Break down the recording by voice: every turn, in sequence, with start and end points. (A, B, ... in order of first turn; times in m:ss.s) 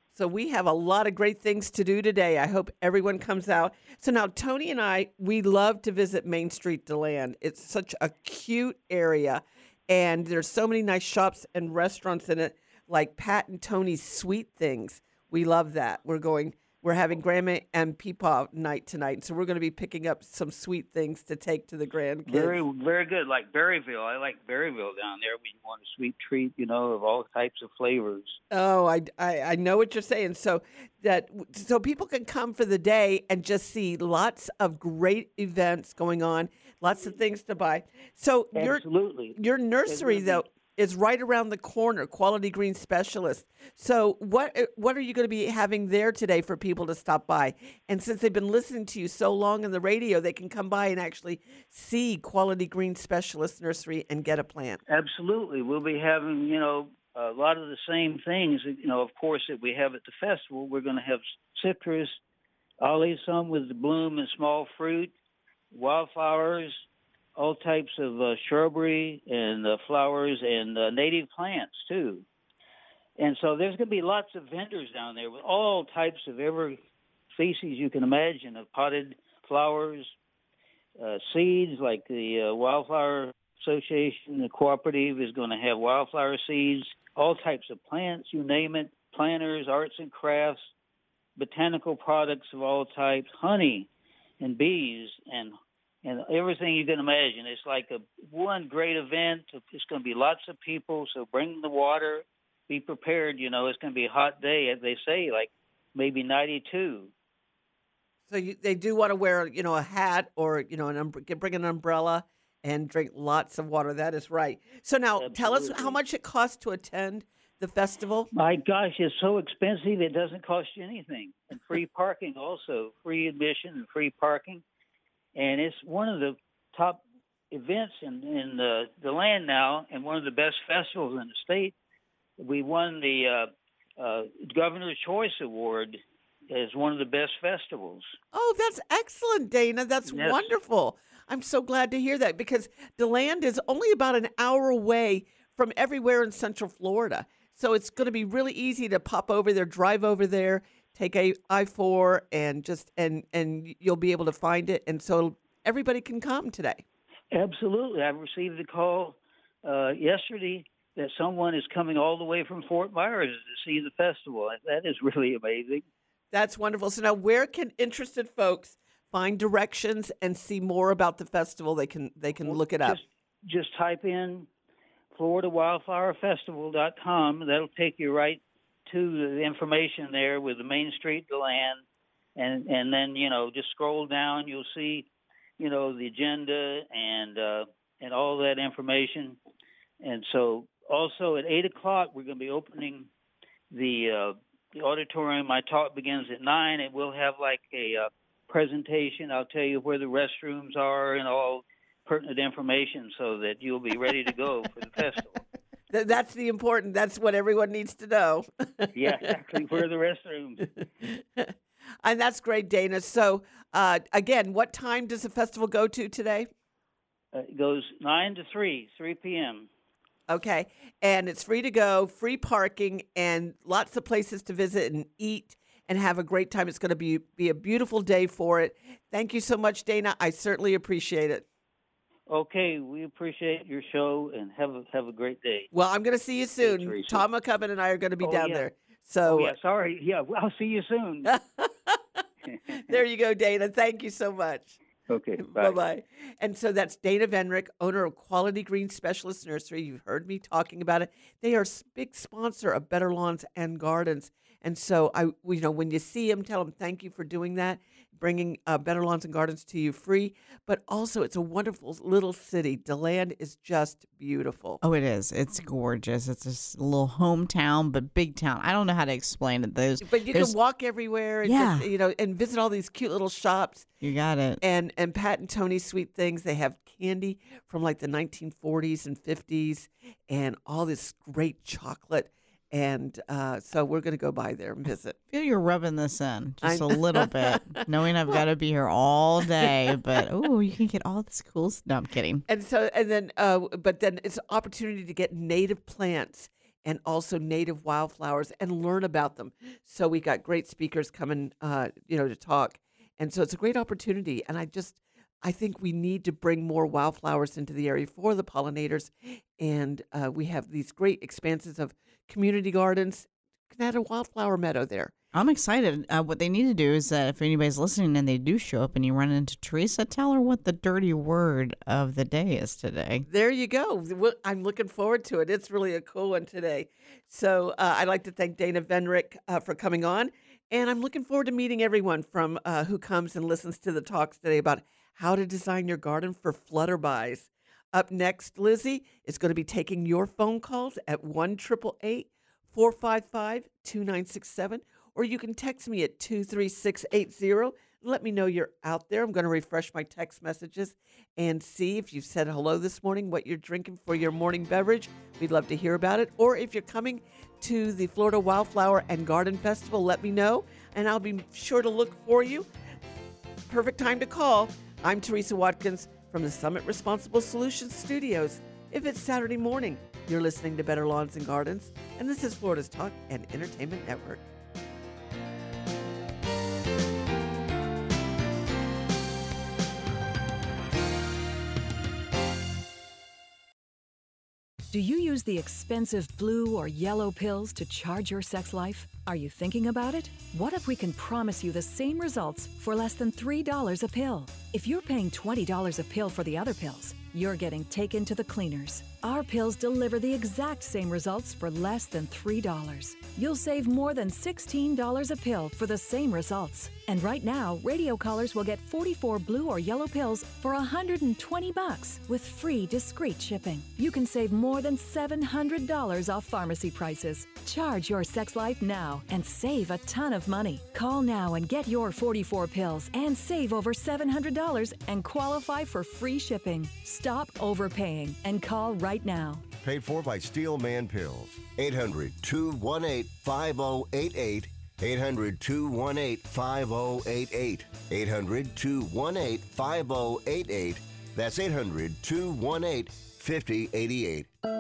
0:00.2-0:22.6 A
0:22.3-0:28.4 B
0:28.5-0:38.8 A
0:38.6-0:40.4 B
0:39.4-0:54.8 A
0:54.9-1:02.2 B
1:02.8-1:05.1 B
1:05.7-1:06.8 B
1:07.4-1:12.2 B
1:13.2-1:16.8 B
1:17.3-1:20.1 B
1:21.0-1:30.7 B
1:31.4-1:33.9 B
1:34.4-1:47.1 B
1:48.3-1:58.3 A
1:55.2-1:56.0 B
1:58.3-2:04.6 B
2:05.4-2:11.7 B
2:12.4-2:16.0 B
2:16.5-2:18.2 B
2:18.3-2:36.8 A
2:20.1-2:20.5 B
2:37.3-2:45.8 B
2:46.3-2:53.0 A
2:52.4-2:54.5 B
2:55.1-3:01.8 B
3:02.4-3:05.1 B
3:05.6-3:09.4 B
3:10.0-3:13.1 B
3:13.7-3:25.4 B
3:25.9-3:29.0 A
3:29.0-3:30.8 B
3:31.0-3:36.5 A
3:37.3-3:39.7 B
3:40.3-3:51.4 A
3:52.3-3:55.7 B
3:55.7-3:59.5 A
3:56.6-3:57.2 B
3:58.2-3:58.7 B
3:59.3-4:01.3 B
4:01.3-4:04.8 A
4:05.1-4:05.8 B
4:05.4-4:24.8 A
4:24.8-4:30.6 C
4:30.0-4:33.9 A
4:31.4-4:31.9 C
4:34.0-4:34.6 C
4:34.6-4:45.2 A
4:45.3-4:52.4 C
4:46.6-4:48.4 A
4:52.5-5:15.1 A
5:15.3-5:23.3 C
5:23.3-6:02.7 A
6:03.7-6:14.4 A
6:24.9-7:09.6 D
7:09.8-7:24.5 E